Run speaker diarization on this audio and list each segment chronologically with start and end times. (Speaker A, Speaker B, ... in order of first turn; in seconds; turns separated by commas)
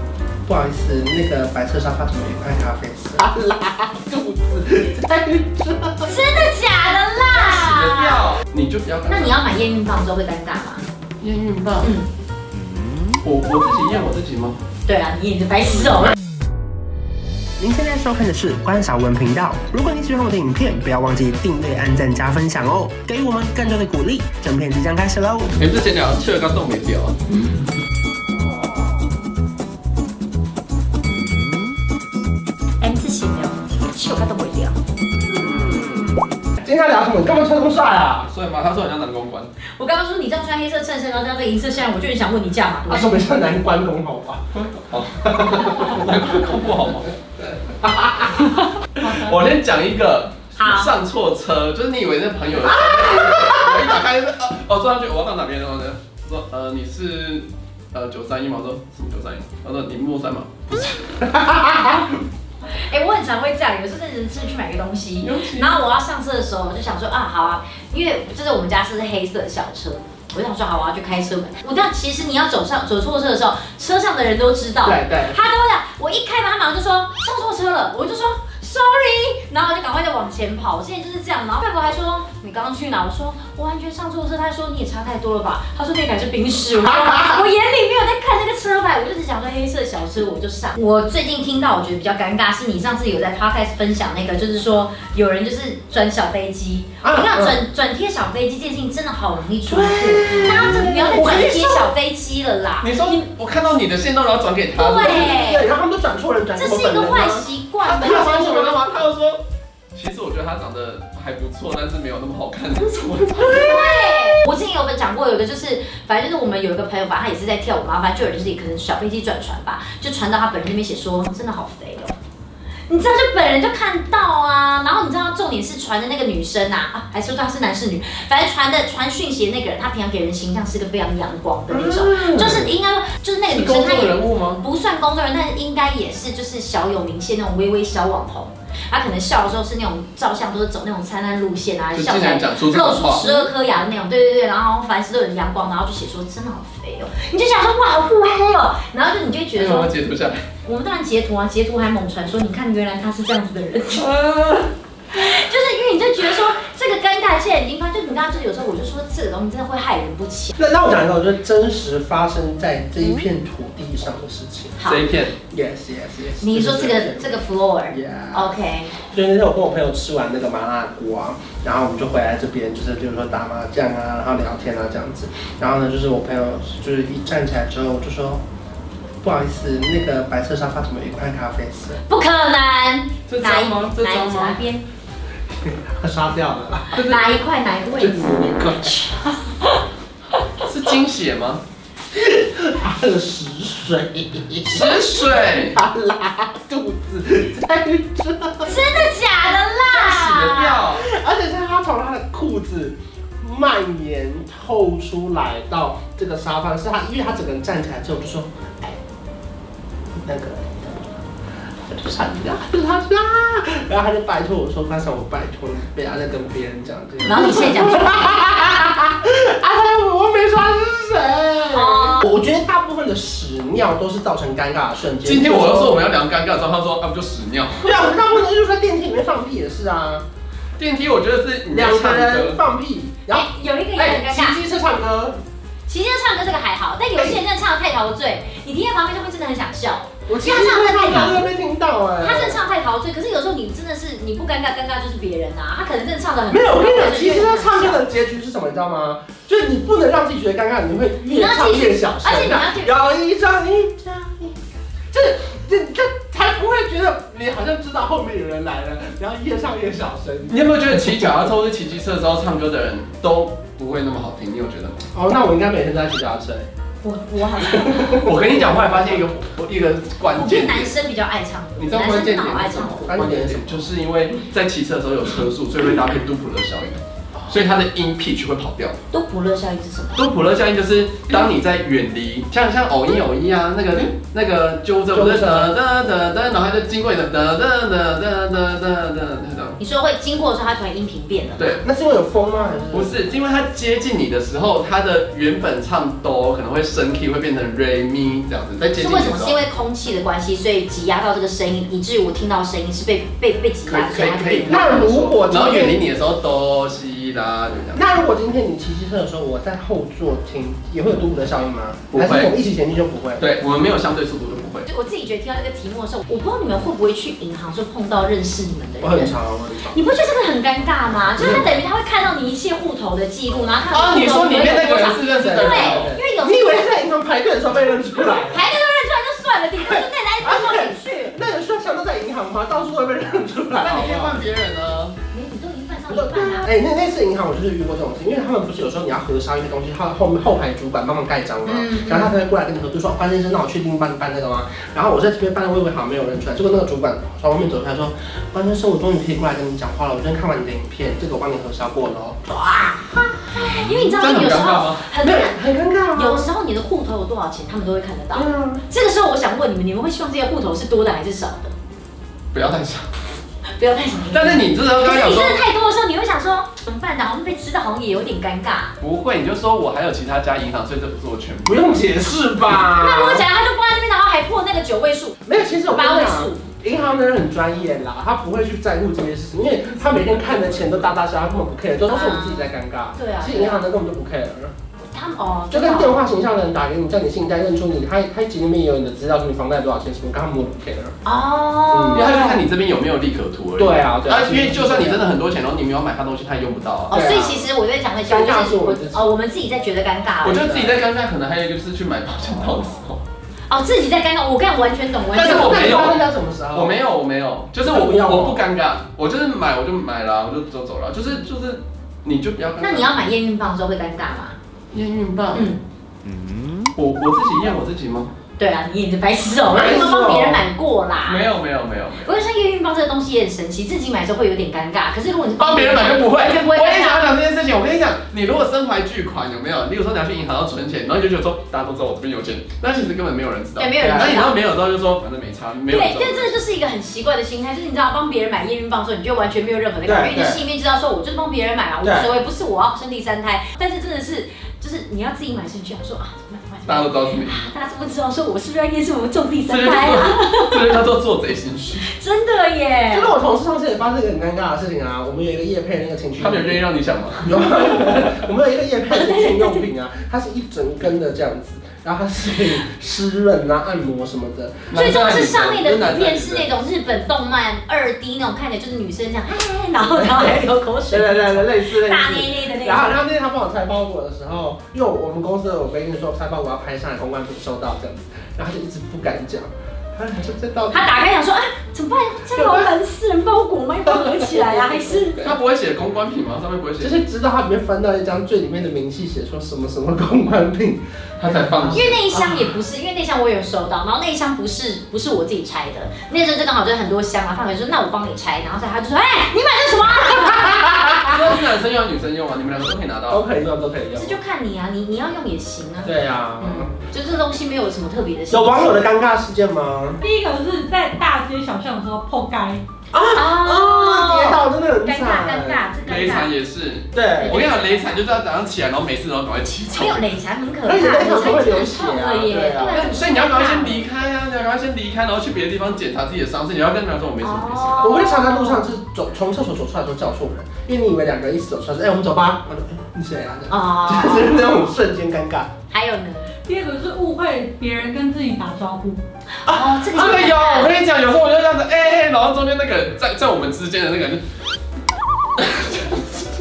Speaker A: 0.5-6.2, Speaker B: 6.0-8.4, Speaker C: 7.3-9.4, Speaker B: 9.1-10.8, Speaker C: 11.2-11.9, Speaker B: 11.8-12.1, Speaker C: 13.2-14.6, Speaker B: 14.8-16.1, Speaker A: 17.6-25.6, Speaker C: 25.6-27.1, Speaker B: 32.8-34.8, Speaker A: 36.6-38.3, Speaker C: 38.3-39.5, Speaker B: 39.8-43.3, Speaker A: 42.9-44.7, Speaker C: 44.6-47.1, Speaker A: 45.2-46.3, Speaker A: 47.4-48.5, Speaker D: 49.0-49.5, Speaker C: 49.1-60.9, Speaker B: 50.5-51.0, Speaker A: 52.8-53.6, Speaker A: 61.2-62.0, Speaker B: 62.8-103.2, Speaker C: 65.2-65.7, Speaker A: 74.8-75.4, Speaker A: 86.8-87.4, Speaker A: 97.0-97.6, Speaker A: 99.7-101.9, Speaker C: 102.8-105.4, Speaker B: 104.7-105.7, Speaker A: 105.0-107.5, Speaker B: 106.5-108.8, Speaker C: 107.8-109.4, Speaker C: 109.9-113.7, Speaker B: 113.4-122.2, Speaker A: 113.4-113.8, Speaker B: 122.9-149.9, Speaker A: 131.7-132.7, Speaker C: 133.5-134.6, Speaker C: 141.9-143.5, Speaker C: 149.6-150.4, Speaker B: 150.7-154.1, Speaker C: 154.0-154.7, Speaker B: 155.1-160.5, Speaker A: 160.6-164.8, Speaker B: 164.8-165.1, Speaker C: 164.8-165.3, Speaker A: 165.5-167.4, Speaker B: 166.4-168.9, Speaker A: 167.9-178.4, Speaker A: 179.2-182.0, Speaker B: 182.1-184.8, Speaker C: 183.3-184.6, Speaker A: 185.6-187.0, Speaker C: 186.9-187.2, Speaker B: 187.0-189.8, Speaker A: 187.9-189.0, Speaker C: 190.6-191.6, Speaker A: 192.1-199.1, Speaker C: 194.6-195.8, Speaker B: 198.6-200.9, Speaker C: 199.9-201.0, Speaker A: 200.9-209.0, Speaker A: 210.1-211.2, Speaker A: 211.8-226.1, Speaker B: 217.2-218.4, Speaker B: 221.7-222.4, Speaker C: 225.2-228.0, Speaker A: 227.8-230.2, Speaker C: 230.8-232.6, Speaker A: 231.7-235.4, Speaker B: 233.3-234.6, Speaker B: 235.9-241.4, Speaker A: 237.2-237.4, Speaker A: 240.3-242.6, Speaker B: 242.2-248.0, Speaker A: 246.5-254.6, Speaker B: 251.2-252.9, Speaker A: 255.1-261.5, Speaker C: 260.5-265.0, Speaker A: 265.1-266.7, Speaker B: 267.0-268.1, Speaker A: 267.5-269.2, Speaker C: 268.1-270.9, Speaker B: 270.3-273.2, Speaker C: 271.8-279.0, Speaker A: 272.7-273.9, Speaker B: 279.1-280.3, Speaker C: 280.1-289.8, Speaker A: 285.1-285.7, Speaker B: 289.8-291.8, Speaker A: 291.8-293.2, Speaker C: 292.9-299.6, Speaker B: 298.9-305.1, Speaker C: 303.9-308.0, Speaker A: 304.7-306.0, Speaker A: 307.9-313.5, Speaker C: 312.1-312.5, Speaker C: 313.4-314.9, Speaker B: 314.9-319.3, Speaker A: 319.0-320.0, Speaker B: 319.9-326.9, Speaker A: 321.3-321.8, Speaker C: 323.9-326.1, Speaker A: 324.4-328.6, Speaker B: 328.3-331.0, Speaker A: 329.8-334.4, Speaker C: 333.8-335.1, Speaker B: 335.3-336.7, Speaker A: 336.1-352.5, Speaker B: 341.6-342.4, Speaker B: 352.5-355.6, Speaker C: 353.6-355.0, Speaker A: 355.2-356.5, Speaker B: 356.1-361.7, Speaker A: 358.3-358.8, Speaker C: 362.5-363.1, Speaker B: 363.8-368.9, Speaker C: 364.3-365.6, Speaker C: 369.0-371.9, Speaker A: 371.6-373.4, Speaker B: 372.9-376.6, Speaker A: 375.4-384.7, Speaker C: 380.0-381.0, Speaker B: 382.0-383.9, Speaker B: 385.0-386.2, Speaker A: 385.7-391.1, Speaker B: 391.2-392.6, Speaker A: 391.9-392.4, Speaker C: 392.1-397.2, Speaker A: 393.8-395.2, Speaker B: 397.1-400.7, Speaker A: 397.1-397.7, Speaker A: 398.2-399.3, Speaker C: 400.4-403.2, Speaker A: 400.5-401.0, Speaker B: 403.7-406.1, Speaker C: 405.3-413.1, Speaker A: 405.3-406.9, Speaker A: 407.8-408.6, Speaker B: 412.8-414.6, Speaker C: 414.9-415.7, Speaker B: 415.5-415.8, Speaker C: 416.9-418.3, Speaker B: 418.6-421.5, Speaker A: 419.6-420.6, Speaker C: 421.2-422.3, Speaker B: 422.2-427.3, Speaker C: 425.6-436.6, Speaker B: 433.8-434.6, Speaker A: 434.0-434.4, Speaker B: 435.9-451.0, Speaker A: 440.0-440.6, Speaker A: 442.0-442.3, Speaker C: 446.9-447.7, Speaker C: 449.7-452.1, Speaker B: 452.0-453.3, Speaker A: 453.1-456.8, Speaker C: 456.4-458.4, Speaker A: 457.4-465.0, Speaker B: 459.1-459.9, Speaker C: 464.9-466.7, Speaker B: 464.9-473.1, Speaker A: 469.9-481.1, Speaker B: 480.9-485.5, Speaker A: 482.5-482.9, Speaker A: 484.3-485.4, Speaker C: 485.4-487.2, Speaker A: 487.0-492.6, Speaker C: 491.4-492.2, Speaker B: 491.9-501.2, Speaker A: 500.6-501.3, Speaker C: 501.2-503.4, Speaker A: 503.3-504.4, Speaker B: 504.1-509.1, Speaker A: 506.0-506.9, Speaker A: 508.5-510.2, Speaker D: 510.2-512.8, Speaker A: 513.1-515.9, Speaker B: 513.3-516.5, Speaker C: 516.0-520.3, Speaker A: 517.1-517.6, Speaker B: 517.3-518.2, Speaker B: 519.9-524.0, Speaker A: 520.8-523.2, Speaker C: 522.8-528.0, Speaker B: 527.4-528.9, Speaker A: 528.0-535.7, Speaker B: 533.7-534.8, Speaker B: 535.9-536.5, Speaker D: 536.6-539.2, Speaker B: 539.6-541.0, Speaker C: 539.7-544.4, Speaker C: 545.6-546.3